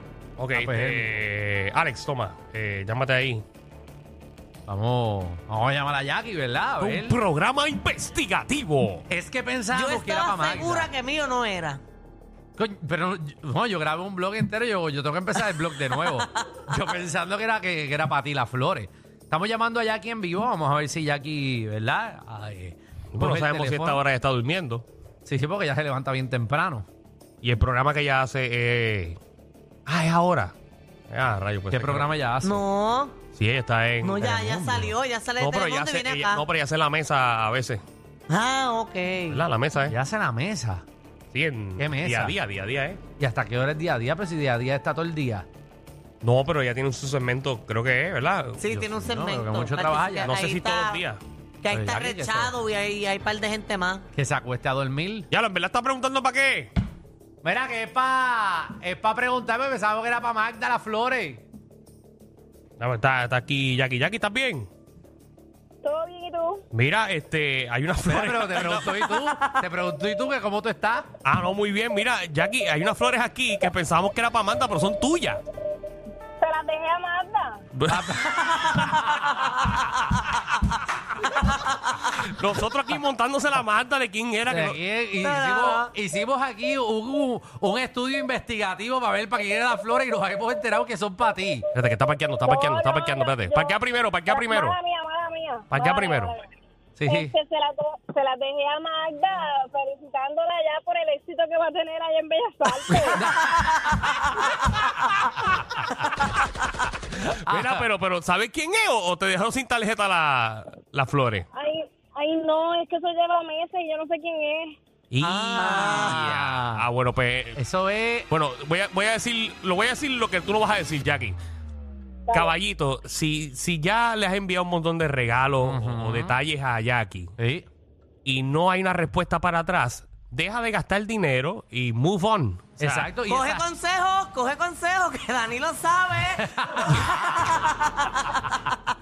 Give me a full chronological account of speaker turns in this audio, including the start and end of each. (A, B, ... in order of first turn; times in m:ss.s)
0:00.4-0:03.4 A
0:00.5-0:01.3 B
0:04.7-0:07.2 B
0:06.8-0:09.1 A
0:09.1-0:10.9 B
0:09.7-0:11.8 C
0:12.6-0:24.0 B
0:15.7-0:16.6 C
0:23.1-0:24.9 A
0:25.2-0:26.9 B
0:27.4-0:29.2 A
0:29.9-0:30.5 A
0:31.1-0:32.1 A
0:31.7-0:32.6 B
0:32.4-0:33.2 C
0:33.4-0:34.3 A
0:34.0-0:36.4 C
0:34.2-0:34.9 B
0:35.4-0:37.8 A
0:38.3-0:39.4 C
0:39.3-0:39.9 A
0:39.9-0:40.8 B
0:41.3-0:43.0 A
0:41.8-0:42.4 B
0:43.2-0:45.5 B
0:46.2-0:48.6 A
0:48.6-0:51.0 C
0:48.7-0:50.4 B
0:50.2-0:51.2 A
0:51.6-0:54.0 C
0:51.7-0:52.5 B
0:54.1-0:55.3 B
0:55.3-0:56.7 A
0:57.4-1:01.4 B
1:02.8-1:04.7 A
1:05.8-1:06.6 D
1:06.7-1:08.9 A
1:08.1-1:11.1 B
1:09.1-1:09.4 C
1:11.2-1:15.4 A
1:16.4-1:17.6 D
1:17.8-1:18.1 A
1:17.9-1:18.8 B
1:18.5-1:19.6 C
1:22.1-1:24.8 A
1:24.5-1:31.7 B
1:25.2-1:25.9 C
1:31.7-1:34.8 A
1:32.4-1:36.4 D
1:35.7-1:36.4 A
1:37.0-1:37.4 B
1:37.1-1:43.4 D
1:42.9-1:44.1 B
1:47.1-1:47.9 B
1:47.2-1:51.5 A
1:51.6-1:54.8 D
1:55.1-1:57.6 A
1:55.2-1:56.9 B
1:55.5-1:56.2 C
1:57.6-1:58.3 B
1:58.3-2:01.4 A
2:02.3-2:02.5 D
2:02.3-2:07.3 A
2:05.6-2:06.4 B
2:07.4-2:07.7 B
2:08.2-2:13.1 A
2:12.8-2:13.6 B
2:13.3-2:18.5 C
2:16.4-2:17.2 B